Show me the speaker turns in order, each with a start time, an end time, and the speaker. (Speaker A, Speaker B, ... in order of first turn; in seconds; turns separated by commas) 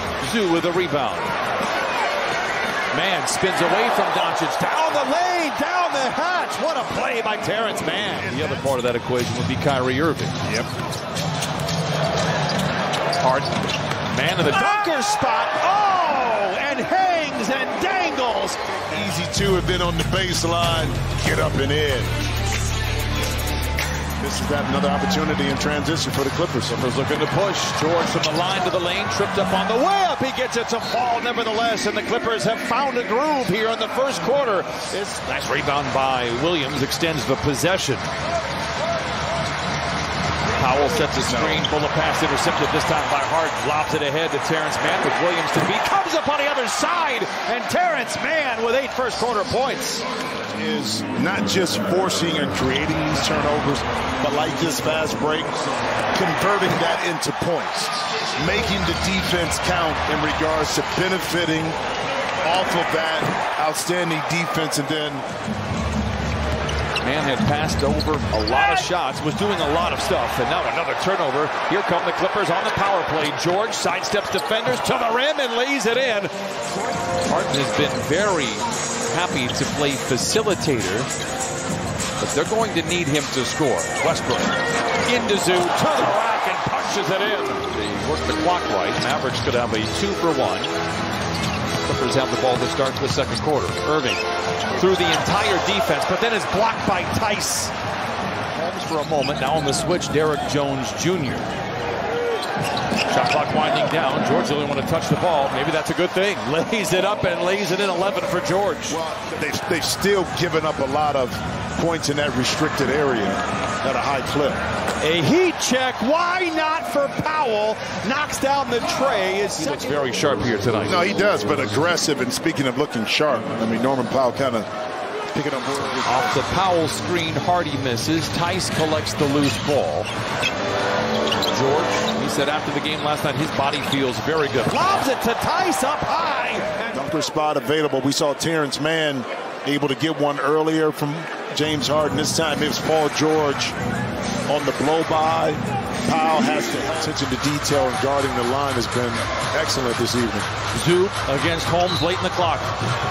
Speaker A: 0.2-1.3, Speaker A: 2.9-10.4, Speaker A: 13.2-18.6, Speaker B: 18.9-22.1, Speaker B: 24.2-26.8, Speaker A: 26.7-38.1, Speaker A: 40.5-50.0, Speaker B: 41.3-41.6, Speaker B: 50.6-61.8, Speaker B: 62.4-65.2, Speaker A: 67.0-81.1, Speaker A: 82.2-90.7, Speaker A: 91.8-97.7, Speaker A: 98.5-101.5, Speaker A: 103.1-109.0, Speaker B: 108.9-114.6, Speaker A: 115.0-121.0, Speaker B: 120.9-124.7, Speaker B: 125.3-126.5, Speaker A: 126.0-130.1, Speaker A: 131.5-137.0, Speaker B: 136.9-143.7, Speaker B: 144.5-150.5, Speaker A: 150.7-152.7